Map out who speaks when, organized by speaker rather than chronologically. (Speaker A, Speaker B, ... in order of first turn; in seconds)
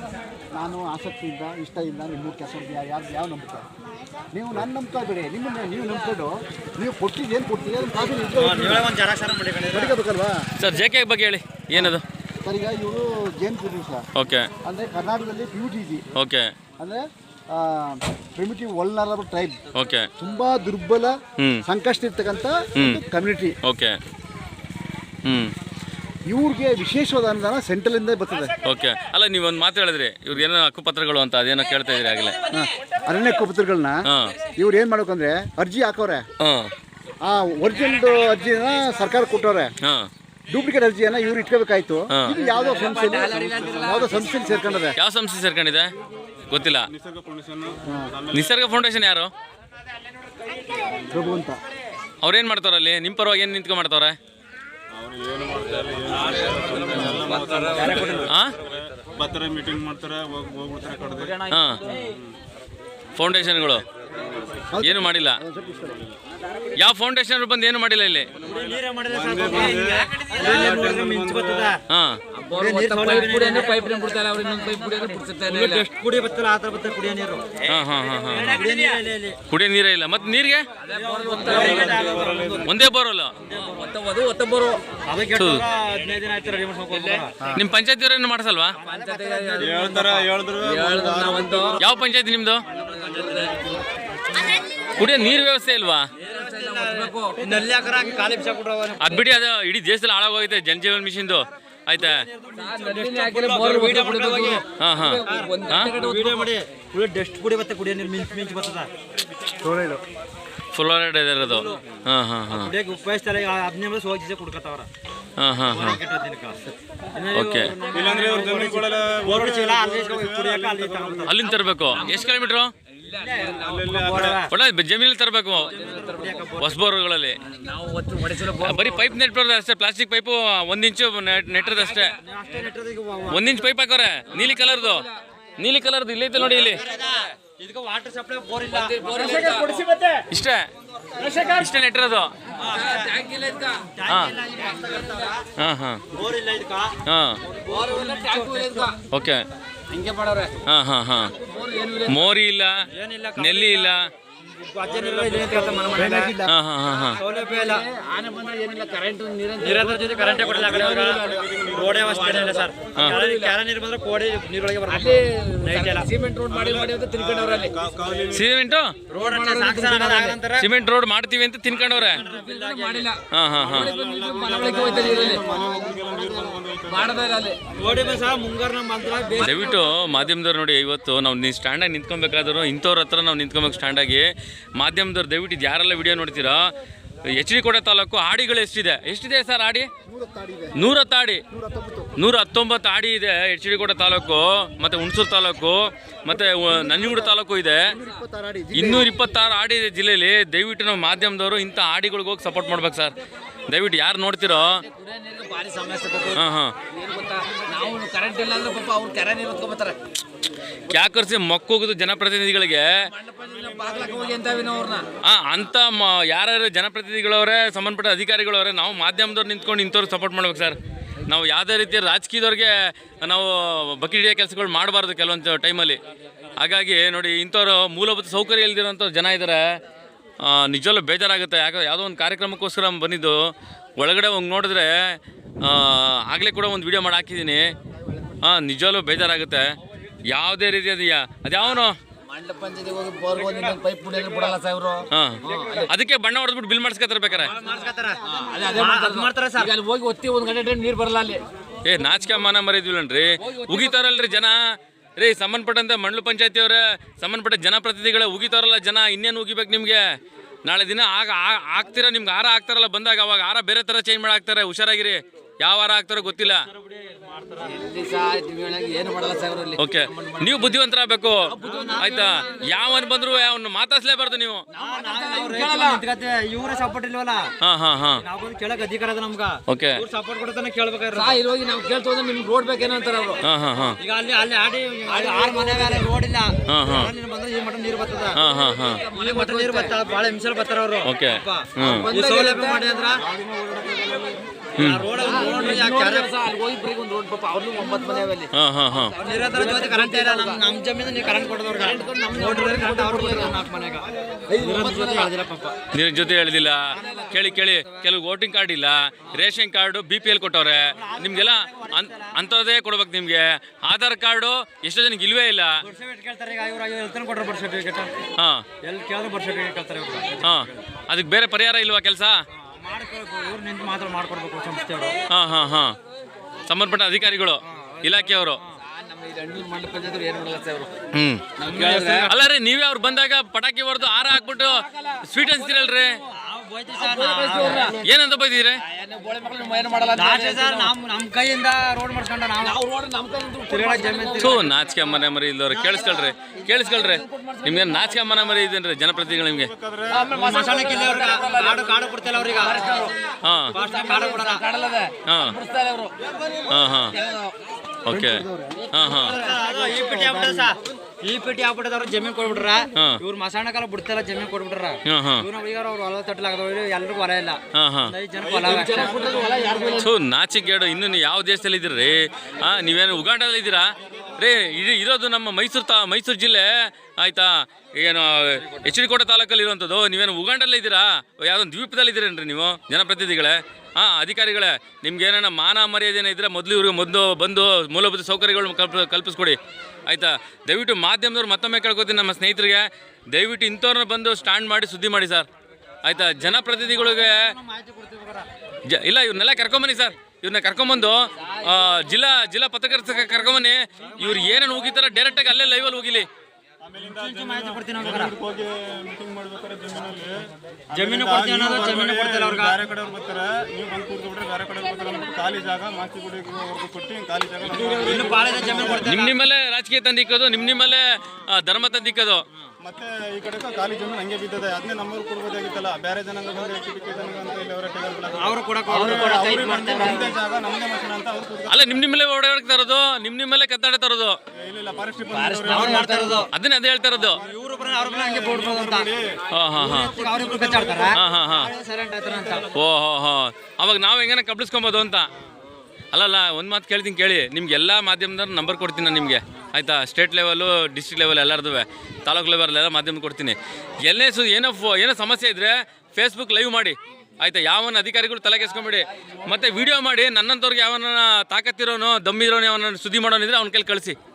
Speaker A: 0.5-3.7, 4.3-8.9, 9.7-10.5, 11.7-14.1, 14.6-16.1, 16.8-19.6, 20.2-23.6, 26.3-28.6, 32.5-36.2, 37.2-39.7, 40.5-45.0, 47.9-48.1, 51.1-51.6, 64.7-66.0, 109.6-110.0, 155.9-156.5, 175.3-176.4, 190.1-190.9, 191.5-192.1, 196.6-199.1, 358.1-360.7
Speaker B: 8.3-9.9, 57.6-58.3, 68.4-71.8, 72.5-74.1, 75.5-77.6, 78.3-79.4, 80.9-82.8, 83.4-83.9, 85.0-87.5, 88.7-90.3, 92.8-93.5, 96.2-99.2, 102.0-104.6, 105.2-108.9, 111.4-111.8, 112.5-114.9, 115.7-116.6, 117.1-121.4, 123.1-124.5, 125.6-126.8, 132.2-133.6, 136.4-140.2, 142.6-143.2, 143.9-145.4, 146.1-147.0, 147.5-149.0, 152.9-156.3, 157.2-157.9, 159.6-166.1, 169.1-170.7, 171.7-173.1, 177.7-179.8, 247.4-249.7, 266.4-267.8, 271.6-272.5, 274.7-277.5, 278.1-281.4, 284.0-288.4, 289.1-293.2, 294.8-296.3, 299.2-305.8, 306.9-308.0, 310.9-312.4, 315.8-318.1, 318.8-320.7, 322.6-325.2, 327.7-328.0, 331.6-332.3, 336.2-337.9, 340.1-342.8, 343.7-344.7, 345.7-346.3, 350.3-353.1, 353.7-354.6, 359.1-369.3, 396.4-398.5, 404.0-404.6, 407.0-408.3, 410.9-412.8, 417.9-419.3, 428.3-430.4, 435.7-436.5, 437.4-439.1, 439.8-442.7
Speaker C: 10.6-12.0, 14.1-14.5, 16.1-16.5, 19.7-20.1, 21.4-21.6, 22.8-23.0, 23.6-24.0, 25.2-25.5, 28.6-32.4, 34.0-34.4, 36.4-36.7, 39.8-40.1, 42.1-42.4, 44.9-45.9, 46.5-46.9, 48.3-49.3, 52.2-54.2, 56.9-57.2, 58.2-58.5, 61.5-61.8, 63.1-63.8, 64.8-65.4, 66.8-68.3, 71.9-72.2, 77.7-78.7, 79.5-80.7, 82.6-83.3, 85.4-85.6, 87.5-88.8, 91.8-92.6, 95.0-96.1, 99.0-102.2, 104.8-105.9, 110.7-112.7, 115.4-116.0, 117.3-117.7, 121.3-122.7, 124.5-125.7, 126.6-127.4, 128.4-132.2, 133.3-135.1, 135.6-136.8, 140.3-140.7, 141.4-142.3, 144.1-144.3, 145.6-146.0, 147.1-147.4, 149.1-149.4, 150.7-151.3, 152.0-152.8, 153.4-154.1, 156.4-157.2, 168.3-168.9, 170.6-172.2, 173.3-173.9, 179.4-186.6, 187.3-189.9, 190.7-191.4, 192.2-197.8, 198.7-203.1, 203.7-204.8, 206.3-206.7, 210.9-213.0, 215.2-220.8, 221.3-226.0, 226.6-229.8, 230.4-233.3, 234.0-237.7, 238.4-239.7, 240.3-242.0, 245.1-247.5, 251.8-260.1, 260.6-266.6, 269.8-274.7, 277.6-278.2, 279.7-280.0, 283.4-284.0, 286.7-287.1, 288.3-289.1, 291.0-292.1, 294.8-295.1, 298.5-299.1, 305.9-315.8, 318.4-318.6, 320.4-322.4, 325.3-325.9, 326.7-328.6, 331.1-336.2, 338.0-338.8, 344.4-349.7, 353.4-353.8, 355.2-355.6, 356.7-357.1, 358.1-359.4, 365.1-365.4, 367.7-368.1, 369.9-395.5, 396.0-397.5, 398.9-406.3, 419.0-422.4, 431.7-434.4, 436.5-437.4, 439.5-440.1, 441.1-441.7, 442.7-445.3, 446.1-464.2
Speaker D: 42.5-44.8, 72.3-75.8, 78.7-78.9, 80.8-82.2, 83.6-84.8, 86.9-87.5, 88.8-91.8, 92.9-93.6, 96.3-97.6, 102.5-106.5, 121.4-122.5, 123.1-123.9, 125.7-126.5, 127.5-129.1, 131.6-132.1, 134.3-135.1, 138.7-139.8, 142.7-143.9, 147.7-149.0, 149.9-150.6, 151.3-152.3, 155.5-155.9, 157.3-161.5, 163.2-163.5, 164.9-167.8, 169.2-170.4, 172.3-175.4, 176.9-177.6, 204.8-206.4, 206.9-210.0, 213.1-215.1, 242.3-245.9, 247.6-251.4, 253.4-254.5, 267.7-270.7, 271.4-272.5, 274.7-276.0, 281.1-283.4, 285.1-286.1, 289.0-289.9, 291.9-293.0, 295.2-298.5, 299.1-300.6, 301.7-303.6, 304.5-305.3, 307.0-307.3, 328.8-330.9, 331.6-332.3, 334.6-335.9, 336.9-338.0, 338.8-340.9, 342.6-344.7, 346.7-348.2, 350.1-352.0, 352.5-353.2, 353.8-356.1, 357.1-357.6, 368.7-370.1, 401.4-402.0, 435.3-436.4, 459.0-459.9
Speaker E: 46.9-48.5, 54.9-61.4, 64.2-64.6, 69.1-71.7, 81.5-82.7, 89.6-91.8, 117.9-121.3, 123.6-124.4, 154.8-155.9, 160.3-162.7, 166.4-168.5, 173.5-178.2, 213.6-214.8, 293.1-294.4, 349.6-350.3, 368.4-370.1, 406.8-419.2, 422.8-431.9, 434.5-436.3, 437.1-441.2